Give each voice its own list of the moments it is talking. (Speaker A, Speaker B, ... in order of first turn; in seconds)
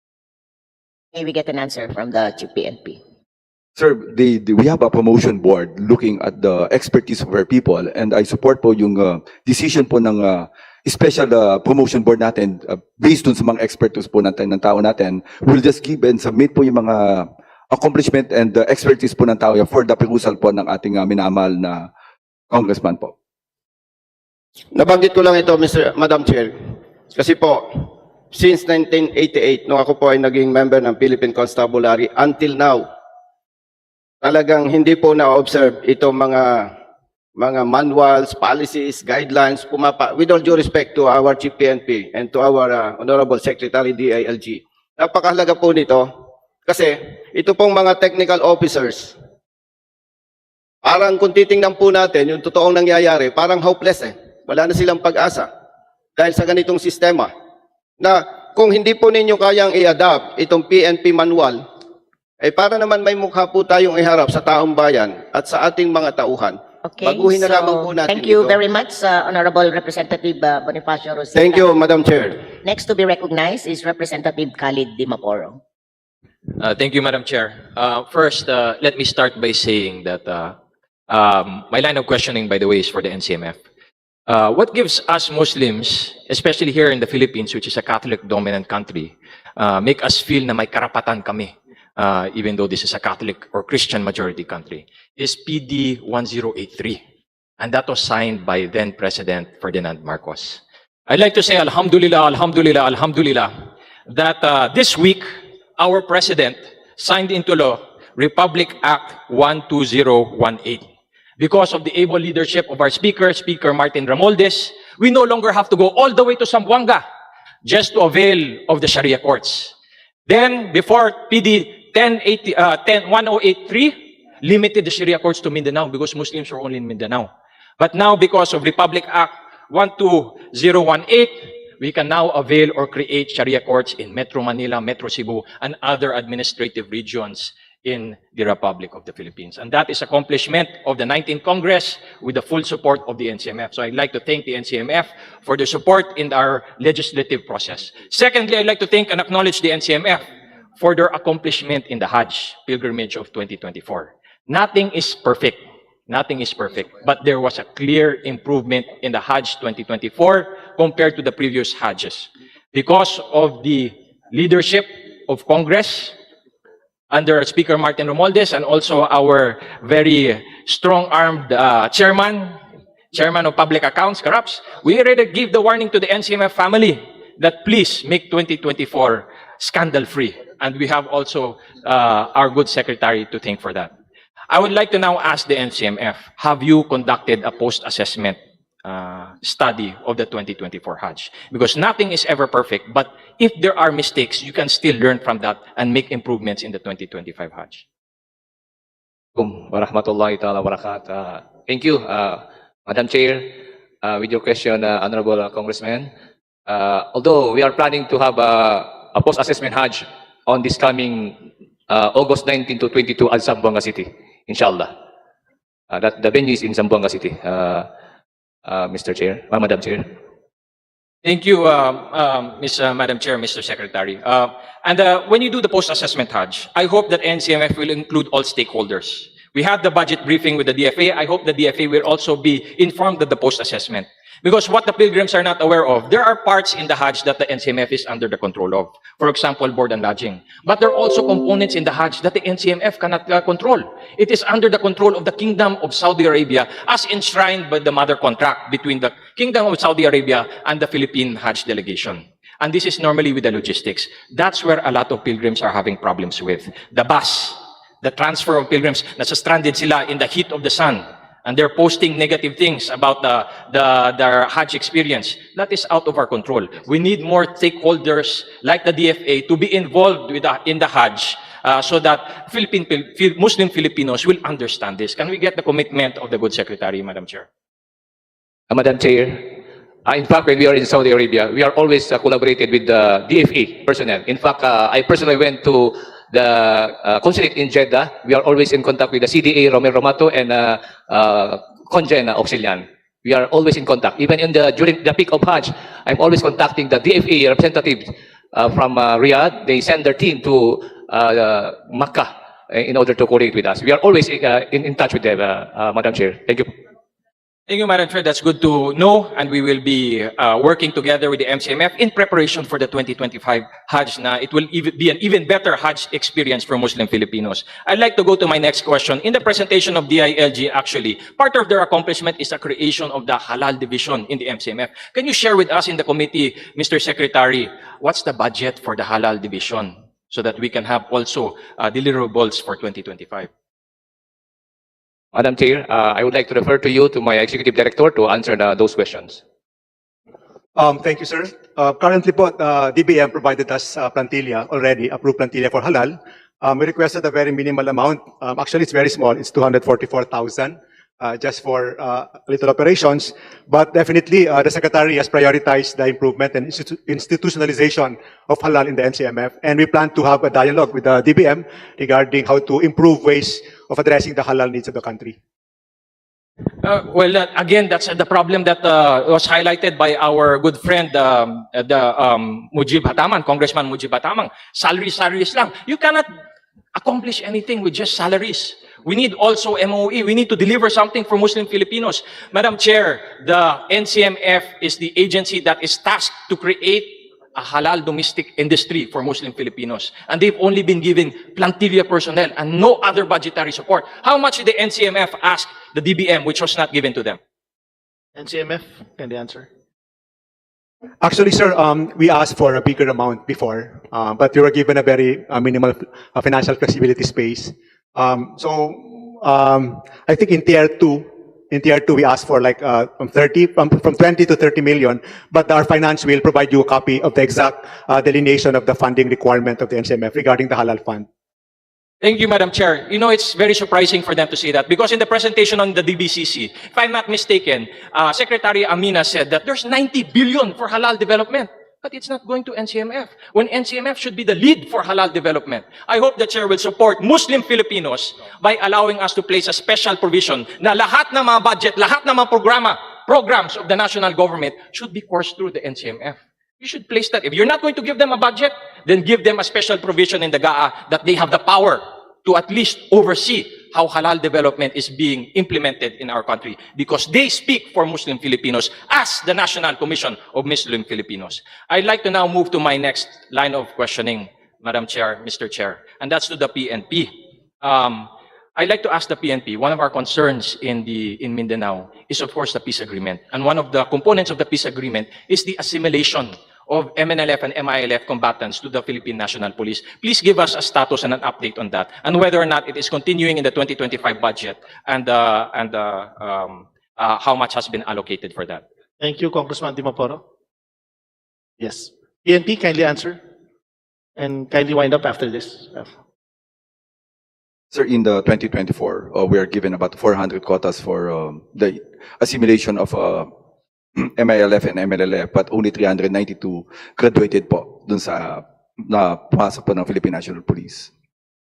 Speaker A: 1.1-3.0, 66.8-71.7, 72.6-75.6
Speaker B: 3.8-21.9, 22.5-23.1, 497.9-503.5, 504.2-511.1
Speaker C: 24.7-26.5, 27.1-27.6, 28.3-32.9, 34.2-36.7, 37.4-46.1, 46.6-49.1, 50.8-55.5, 56.2-57.3, 58.0-61.6, 62.4-68.5, 71.3-72.4
Speaker D: 76.6-80.5, 81.1-83.6, 84.3-97.0, 97.6-103.5, 104.1-105.3, 105.8-110.9, 111.4-117.0, 117.6-119.7, 120.3-150.2, 150.8-166.1, 167.1-172.6, 173.1-183.9, 184.5-197.8, 221.2-277.5, 307.7-333.5, 366.8-376.3, 376.9-397.4, 422.2-488.8
Speaker E: 199.3-206.1, 206.7-215.0, 215.9-217.9, 218.7-220.1, 278.7-306.7, 335.3-339.4
Speaker F: 340.8-365.4, 401.2-421.2
Speaker G: 398.4-399.7, 489.2-490.4, 491.8-493.4, 494.4-496.1